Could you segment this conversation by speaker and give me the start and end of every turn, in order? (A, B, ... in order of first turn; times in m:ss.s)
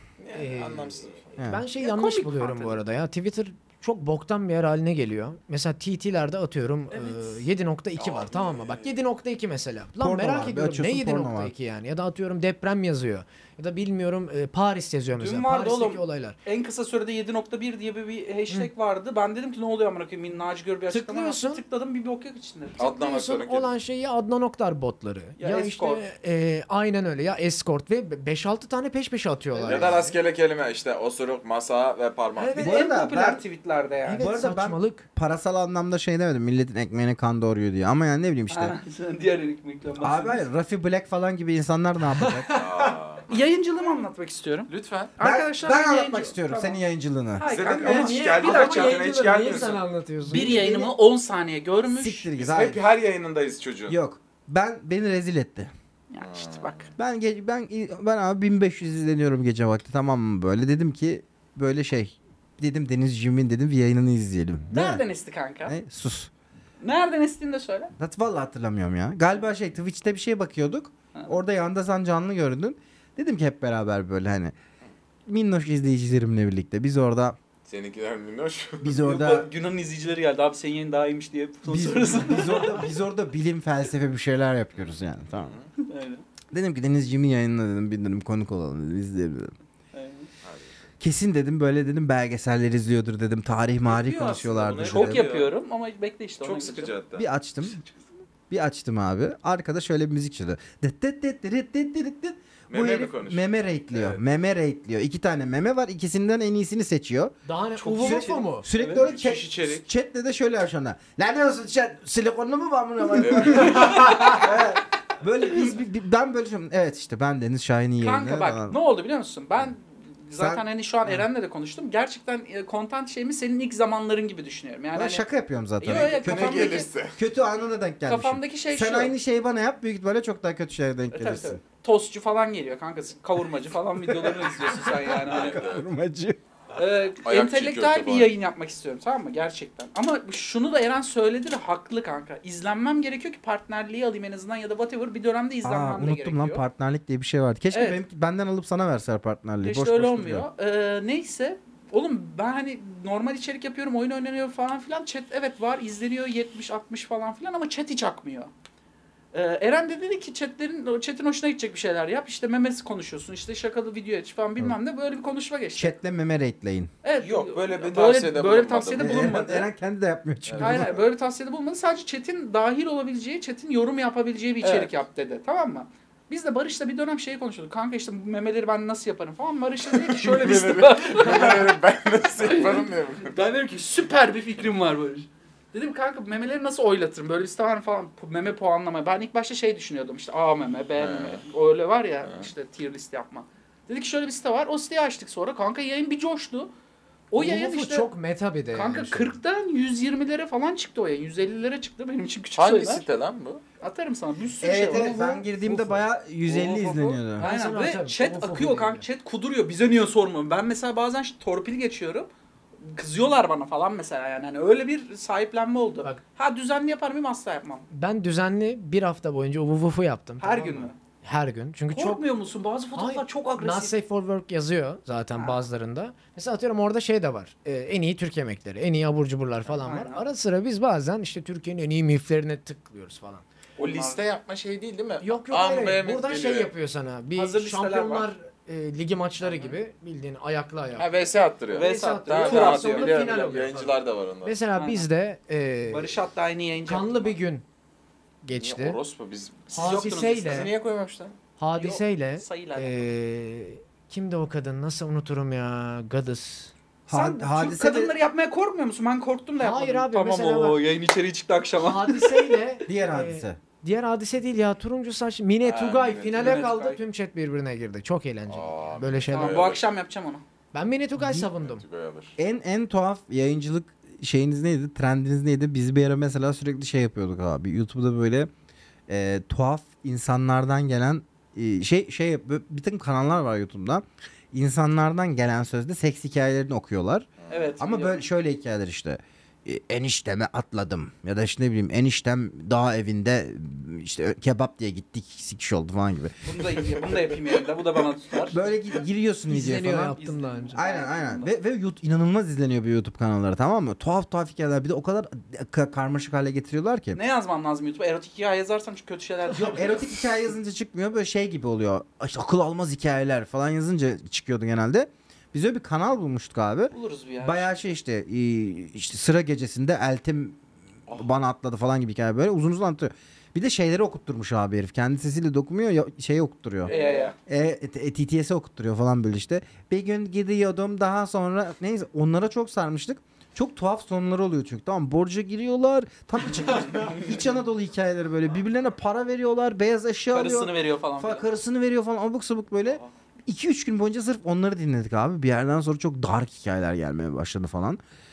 0:00.2-0:01.3 A
0:00.3-0:16.4 B
0:01.4-0:01.6 C
0:01.8-0:02.8 D
0:06.9-0:07.4 D
0:08.0-0:08.9 A
0:10.0-0:11.5 C
0:15.2-0:22.8 D
0:20.9-0:21.6 B
0:22.8-0:23.7 A
0:22.8-0:30.2 B
0:25.4-0:26.0 D
0:29.6-0:30.0 D
0:29.6-0:32.7 A
0:32.4-0:32.9 B
0:32.6-0:33.4 C
0:32.6-0:34.3 D
0:34.1-0:35.1 B
0:34.2-0:38.7 C
0:38.5-0:40.4 D
0:40.0-0:42.5 C
0:42.2-0:43.0 B
0:42.5-0:43.4 A
0:43.3-0:46.8 D
0:44.7-0:45.2 A
0:45.2-0:47.5 C
0:47.4-0:49.0 D
0:47.5-0:49.8 A
0:47.7-0:50.6 B
0:50.3-0:52.3 D
0:50.3-0:50.9 C
0:51.9-0:52.8 C
0:52.4-0:54.0 A
0:53.9-0:55.7 C
0:56.1-0:56.9 D
0:56.2-0:56.9 A
0:57.0-1:05.0 C
1:04.7-1:05.8 D
1:05.7-1:06.3 C
1:06.8-1:07.9 D
1:08.0-1:14.5 C
1:15.3-1:17.4 C
1:17.7-1:19.0 A
1:18.8-1:19.5 C
1:19.0-1:22.9 D
1:21.7-1:25.6 C
1:25.3-1:25.7 A
1:25.8-1:26.2 D
1:26.5-1:29.5 C
1:29.9-1:30.3 D
1:30.4-1:30.7 A
1:31.0-1:35.3 C
1:33.9-1:35.5 A
1:34.8-1:37.0 D
1:36.4-1:37.3 A
1:37.2-1:37.8 C
1:38.5-1:47.4 C
1:42.7-1:44.2 A
1:47.5-1:48.7 B
1:47.8-1:49.0 D
1:48.0-1:58.8 C
1:48.8-1:49.9 A
1:53.2-1:54.2 A
1:53.6-1:54.4 D
1:58.0-2:05.2 D
2:00.4-2:01.3 C
2:05.0-2:11.6 C
2:05.8-2:06.9 D
2:05.9-2:07.2 A
2:08.1-2:09.2 D
2:11.1-2:15.7 D
2:14.8-2:16.4 C
2:15.2-2:15.8 A
2:16.8-2:26.6 D
2:17.2-2:18.3 A
2:25.6-2:30.5 C
2:27.7-2:28.0 D
2:29.6-2:38.5 D
2:39.3-2:46.0 D
2:45.8-2:46.9 C
2:47.0-2:49.7 D
2:47.2-2:49.5 A
2:49.0-2:51.0 C
2:50.5-2:51.0 A
2:50.6-3:01.8 D
2:54.6-2:54.9 A
2:59.9-3:03.4 A
3:02.4-3:16.7 D
3:11.0-3:11.4 A
3:17.3-3:18.1 D
3:17.4-3:19.4 B
3:18.7-3:23.1 D
3:22.6-3:23.6 A
3:23.8-3:25.4 D
3:24.6-3:27.5 C
3:24.9-3:26.1 B
3:26.5-3:27.2 A
3:27.4-3:32.3 D
3:27.4-3:29.1 B
3:32.8-3:37.9 D
3:37.9-3:42.2 B
3:40.4-3:41.0 D
3:41.9-3:43.9 D
3:43.0-3:53.4 B
3:45.4-3:45.6 D
3:49.7-3:50.2 D
3:53.8-3:54.2 D
3:53.8-3:56.7 A
3:55.2-4:01.1 B
3:57.4-3:58.3 D
3:59.4-3:59.8 D
4:01.0-4:04.6 A
4:01.7-4:03.6 D
4:01.7-4:06.1 B
4:04.8-4:05.1 D
4:05.9-4:07.4 D
4:06.9-4:07.6 B
4:08.4-4:09.0 B
4:08.5-4:11.4 A
4:09.7-4:10.7 B
4:09.7-4:10.7 D
4:11.6-4:16.7 B
4:11.8-4:13.0 D
4:17.1-4:18.1 C
4:17.1-4:22.6 D
4:19.6-4:20.8 B
4:21.8-4:29.7 B
4:22.9-4:23.6 C
4:25.6-4:26.6 A
4:26.3-4:27.0 D
4:28.5-4:29.8 A
4:29.3-4:30.4 D
4:30.7-4:31.8 B
4:31.2-4:31.5 C
4:31.5-4:32.4 A
4:32.4-4:38.5 C
4:39.1-4:57.0 C
4:47.4-4:47.7 A
4:47.5-4:48.2 D
4:56.4-4:58.6 D
4:58.5-5:00.2 C
4:59.5-5:00.9 B
5:00.1-5:01.5 D
5:00.7-5:07.2 C
5:07.1-5:10.1 D
5:09.6-5:48.0 C
5:16.9-5:17.8 D
5:21.1-5:21.3 A
5:26.8-5:27.3 A
5:26.9-5:27.4 D
5:40.3-5:41.5 D